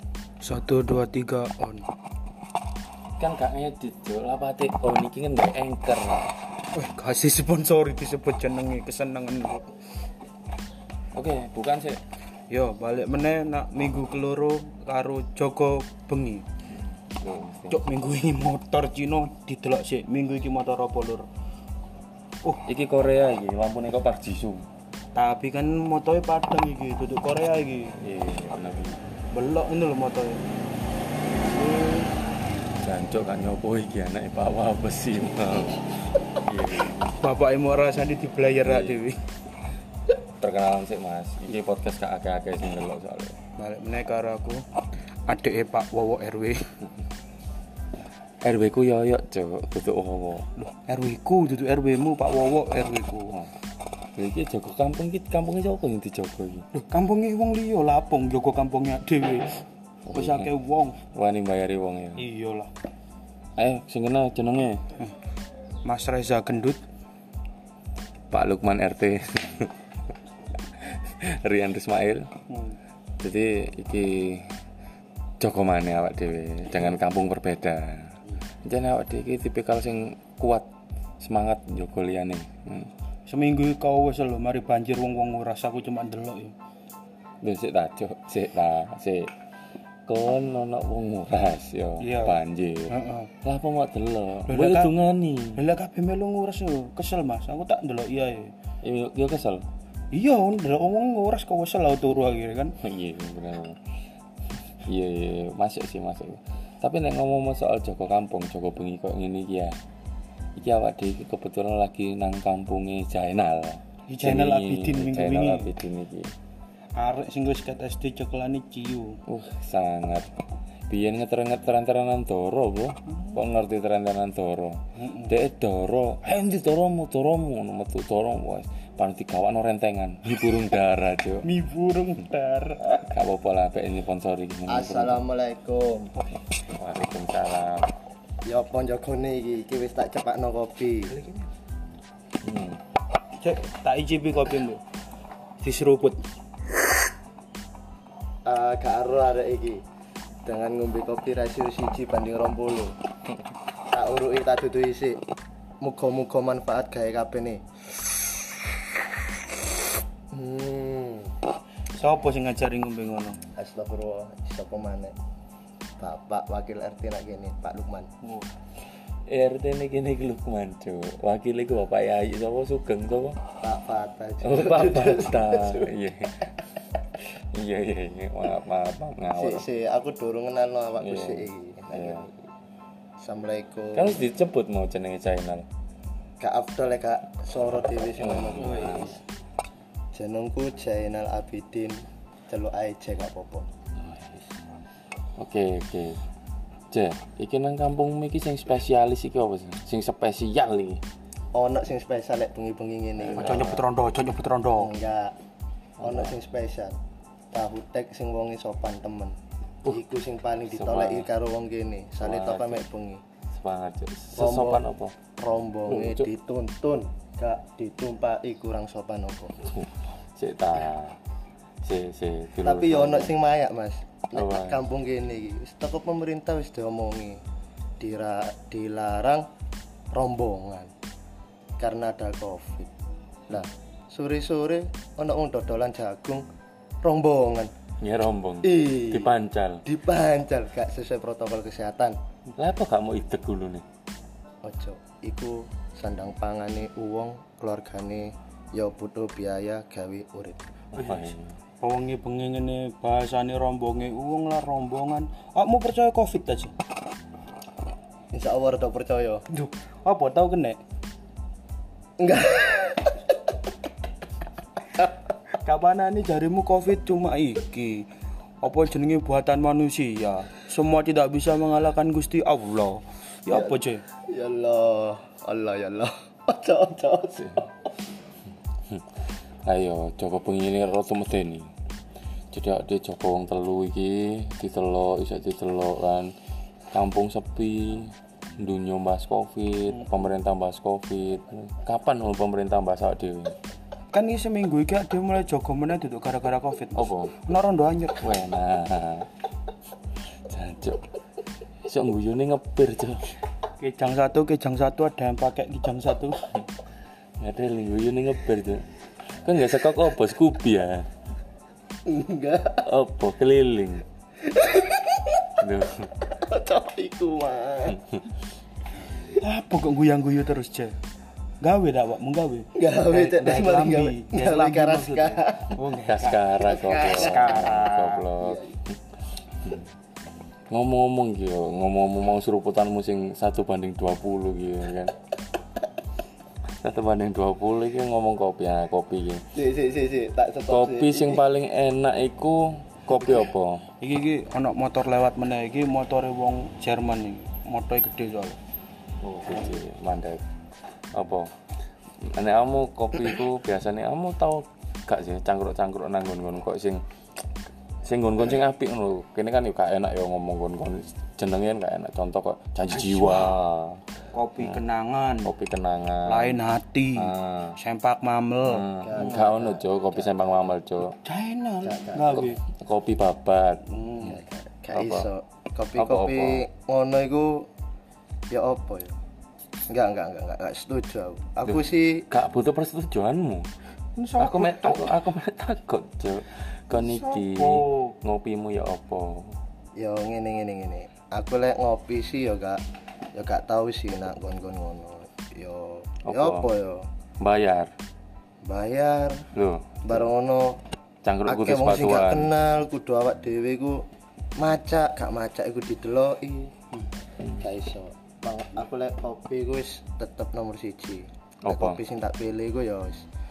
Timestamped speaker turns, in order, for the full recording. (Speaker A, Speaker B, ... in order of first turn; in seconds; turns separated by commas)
Speaker A: 0.4-1.9, Speaker B: 3.2-6.3, Speaker A: 6.7-9.7, Speaker B: 11.1-12.0, Speaker A: 12.5-16.4, Speaker B: 16.7-17.8, Speaker A: 17.7-21.3, Speaker B: 22.6-24.6, Speaker A: 25.1-28.0, Speaker B: 28.0-29.0, Speaker A: 29.3-30.4, Speaker A: 31.4-32.1, Speaker B: 32.8-37.1, Speaker A: 37.1-39.2, Speaker B: 38.6-39.0, Speaker B: 40.4-43.4, Speaker A: 43.6-44.7, Speaker A: 45.3-46.8, Speaker B: 48.4-50.5, Speaker A: 50.7-53.4, Speaker B: 54.2-56.7, Speaker A: 56.7-61.0, Speaker B: 60.1-60.5, Speaker B: 61.1-62.2, Speaker A: 62.2-62.7, Speaker B: 63.6-64.8, Speaker A: 65.8-66.8, Speaker B: 68.3-69.7, Speaker B: 70.8-72.3, Speaker A: 72.5-72.8, Speaker B: 73.2-74.5, Speaker B: 75.4-80.7, Speaker B: 81.2-82.9, Speaker A: 83.3-86.5, Speaker B: 87.4-89.3, Speaker B: 90.1-92.9, Speaker A: 92.0-93.3, Speaker B: 93.4-95.6, Speaker A: 94.5-95.0, Speaker A: 95.5-98.5, Speaker B: 98.8-99.7, Speaker A: 100.1-102.8, Speaker B: 102.8-103.8, Speaker B: 104.9-109.8, Speaker B: 110.6-116.3, Speaker A: 114.1-115.7, Speaker A: 117.0-119.2, Speaker B: 119.3-120.3, Speaker B: 120.9-131.5, Speaker A: 125.0-125.3, Speaker A: 131.4-133.0, Speaker B: 133.1-135.2, Speaker C: 134.7-136.1, Speaker B: 136.6-137.9, Speaker C: 138.5-141.2, Speaker A: 141.1-141.5, Speaker B: 142.4-142.8, Speaker A: 143.4-144.8, Speaker A: 145.6-146.2, Speaker C: 148.4-149.8, Speaker C: 150.4-152.9, Speaker C: 153.9-155.2, Speaker C: 155.8-157.6, Speaker C: 160.3-161.3, Speaker A: 161.9-163.4, Speaker C: 163.6-165.2, Speaker C: 166.0-168.1, Speaker A: 168.2-168.5, Speaker B: 169.3-173.4, Speaker C: 173.6-175.9, Speaker B: 174.4-176.6, Speaker B: 177.2-179.7, Speaker C: 179.3-182.3, Speaker B: 181.0-182.3, Speaker C: 183.2-184.2, Speaker B: 183.9-185.7, Speaker C: 186.4-189.2, Speaker B: 188.2-189.2, Speaker A: 188.6-189.1, Speaker C: 190.1-192.0, Speaker C: 192.5-193.7, Speaker B: 194.0-194.5, Speaker B: 195.4-196.2, Speaker B: 196.9-201.0, Speaker C: 201.5-203.7, Speaker B: 203.2-203.9, Speaker A: 203.3-204.9, Speaker C: 204.8-205.3, Speaker B: 206.0-206.3, Speaker C: 206.0-206.9, Speaker C: 207.5-213.2, Speaker B: 210.7-211.3, Speaker B: 212.2-212.8, Speaker B: 213.5-215.2, Speaker C: 214.4-214.8, Speaker C: 215.4-219.6, Speaker B: 215.9-216.3, Speaker B: 219.7-221.2, Speaker B: 221.8-223.3, Speaker C: 222.6-227.4, Speaker B: 224.3-224.8, Speaker C: 228.0-229.4, Speaker C: 230.1-230.9, Speaker C: 231.8-232.9, Speaker C: 233.5-236.4, Speaker C: 237.0-237.7, Speaker B: 238.0-239.8, Speaker C: 238.6-239.3, Speaker C: 239.8-242.2, Speaker B: 242.6-243.8, Speaker C: 244.6-250.6, Speaker B: 250.9-251.5, Speaker A: 251.0-251.3, Speaker A: 251.8-256.8, Speaker C: 258.3-259.4, Speaker A: 259.5-260.8, Speaker C: 262.2-263.2, Speaker A: 265.6-268.1, Speaker A: 268.6-274.0, Speaker C: 273.5-273.8, Speaker C: 274.3-277.7, Speaker B: 277.4-277.6, Speaker B: 279.6-281.7, Speaker B: 282.5-286.3, Speaker B: 286.9-293.6, Speaker A: 294.1-298.4, Speaker B: 296.9-297.4, Speaker B: 298.2-299.3, Speaker B: 300.5-301.1, Speaker B: 301.9-303.3, Speaker A: 303.8-306.4, Speaker B: 307.4-308.9, Speaker B: 309.4-311.1, Speaker C: 312.1-312.9, Speaker B: 312.8-314.0, Speaker C: 314.5-315.3, Speaker B: 315.6-316.1, Speaker C: 316.3-318.0, Speaker A: 319.3-320.9, Speaker A: 321.6-328.2, Speaker C: 322.8-325.8, Speaker B: 326.1-328.6, Speaker C: 326.6-328.8, Speaker B: 329.6-329.9, Speaker B: 330.7-335.1, Speaker B: 336.8-339.4, Speaker C: 339.5-341.4, Speaker B: 340.7-343.9, Speaker A: 344.0-348.6, Speaker B: 349.2-350.4, Speaker B: 351.1-351.5, Speaker B: 352.2-357.0, Speaker B: 358.0-364.0, Speaker A: 362.9-363.6, Speaker A: 364.3-365.5, Speaker B: 365.4-366.6, Speaker A: 366.2-369.4, Speaker B: 367.2-367.8, Speaker B: 368.7-371.1, Speaker C: 369.0-370.7, Speaker A: 371.1-372.6, Speaker C: 371.8-372.5, Speaker B: 372.4-373.9, Speaker A: 373.9-374.4, Speaker C: 374.2-377.7, Speaker B: 374.9-375.3, Speaker B: 376.0-376.7, Speaker C: 378.5-379.1, Speaker C: 379.9-382.3, Speaker B: 381.7-383.7, Speaker A: 384.2-385.1, Speaker B: 384.4-389.5, Speaker A: 386.9-388.1, Speaker C: 390.0-392.8, Speaker C: 393.4-397.1, Speaker B: 396.3-396.6, Speaker B: 397.4-397.9, Speaker C: 398.6-399.5, Speaker B: 399.5-400.2, Speaker C: 400.0-400.8, Speaker B: 401.2-402.5, Speaker C: 401.5-404.0, Speaker C: 404.6-406.7, Speaker C: 407.6-413.2, Speaker B: 411.7-412.0